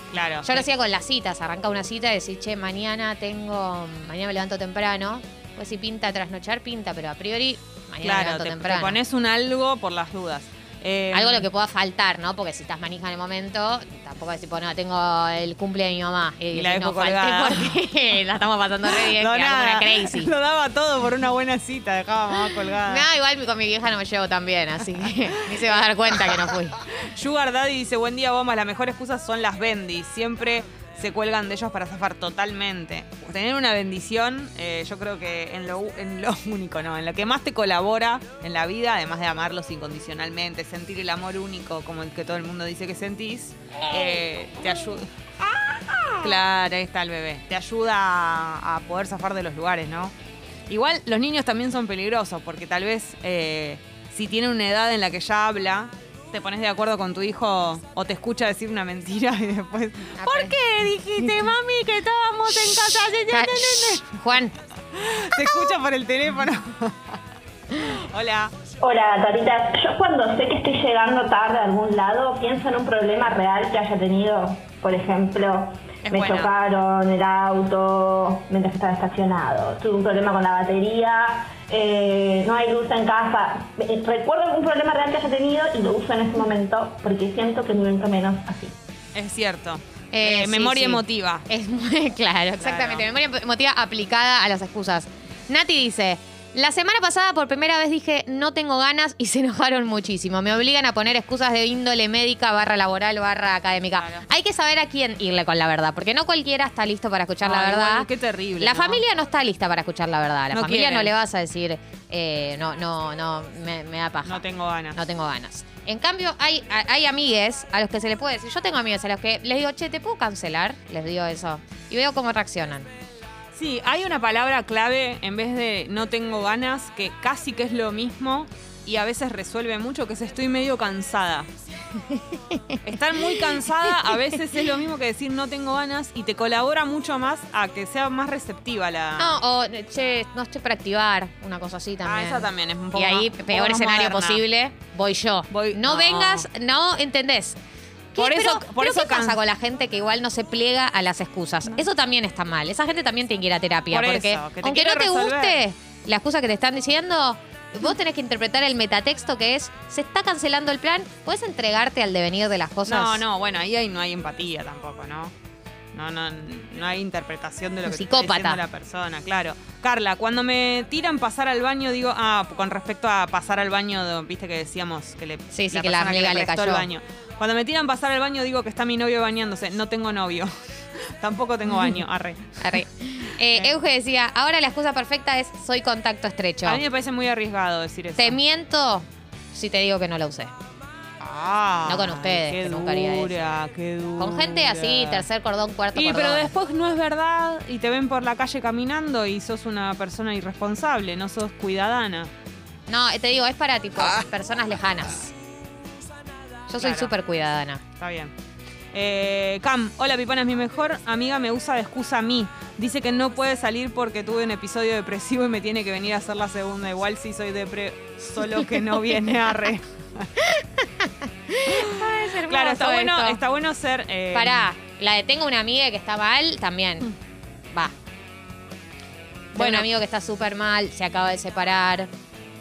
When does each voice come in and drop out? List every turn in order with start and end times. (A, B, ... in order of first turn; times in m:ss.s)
0:00.1-0:00.7 A
0:00.4-0:09.0 B
0:08.0-0:11.5 A
0:11.1-0:20.3 B
0:16.5-0:17.8 A
0:18.8-0:23.1 A
0:22.7-0:26.8 B
0:25.0-0:45.0 A
0:46.2-0:50.1 A
0:50.7-1:04.2 A
1:00.2-1:00.5 B
1:02.8-1:04.5 B
1:05.0-1:07.2 A
1:07.8-1:08.5 A
1:08.8-1:28.7 C
1:16.0-1:16.5 A
1:29.1-1:31.5 A
1:30.1-1:48.1 B
1:32.6-1:33.1 A
1:43.9-1:44.2 A
1:47.4-1:49.0 A
1:48.6-1:54.4 B
1:50.5-1:51.1 A
1:54.2-1:55.0 A
1:54.9-2:02.9 B
2:03.5-2:11.5 A
2:12.1-2:12.8 B
2:12.8-2:19.4 A
2:19.2-2:27.6 B
2:22.0-2:24.4 A
2:25.5-2:26.5 A
2:28.1-2:43.2 B
2:28.2-2:29.4 A
2:33.9-2:35.6 A
2:42.8-2:45.3 A
2:45.9-3:00.5 A
2:47.8-2:48.6 B
2:55.5-2:56.9 B
3:01.2-3:02.8 A
3:02.6-3:06.8 B
3:03.5-3:03.7 A
3:06.6-3:08.4 A
3:08.2-3:10.5 B
3:11.2-3:15.2 A
3:11.8-3:13.4 B
3:14.2-3:16.5 B
3:15.9-3:22.3 A
3:22.9-3:25.3 B
3:26.7-3:27.8 B
3:26.8-3:27.1 A
3:28.0-3:28.3 A
3:28.9-3:40.3 A
3:40.4-3:43.4 B
3:41.8-3:44.7 A
3:44.3-3:47.1 B
3:49.5-3:52.1 B
3:49.6-3:49.9 A